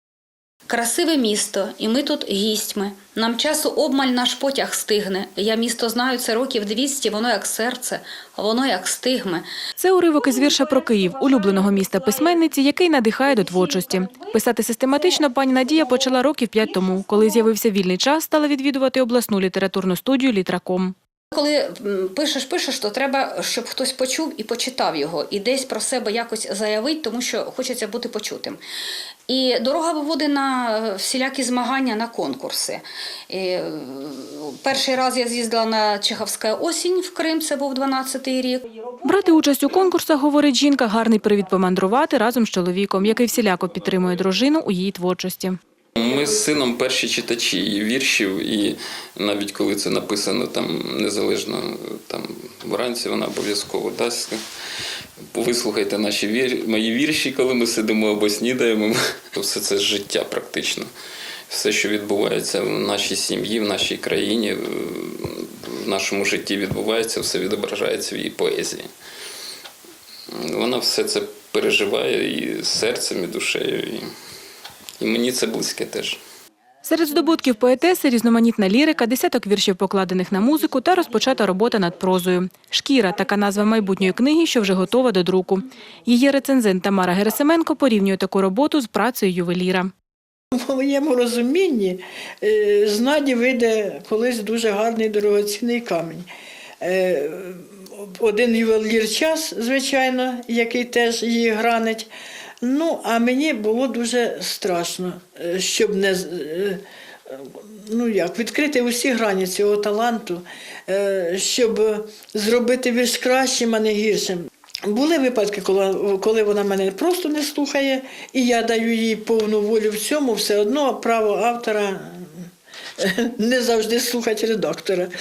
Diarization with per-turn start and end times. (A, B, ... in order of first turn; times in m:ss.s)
0:00.7-0:09.4 A
0:09.8-0:21.0 B
0:21.3-0:28.6 A
0:29.3-0:38.7 A
0:39.0-0:45.6 B
0:46.0-0:54.4 C
0:55.3-1:00.9 C
1:01.5-1:08.9 C
1:10.3-1:14.1 C
1:15.0-1:16.2 C
1:16.8-1:29.9 B
1:30.5-1:36.3 D
1:36.8-1:42.1 D
1:42.6-2:02.3 D
2:03.0-2:05.1 D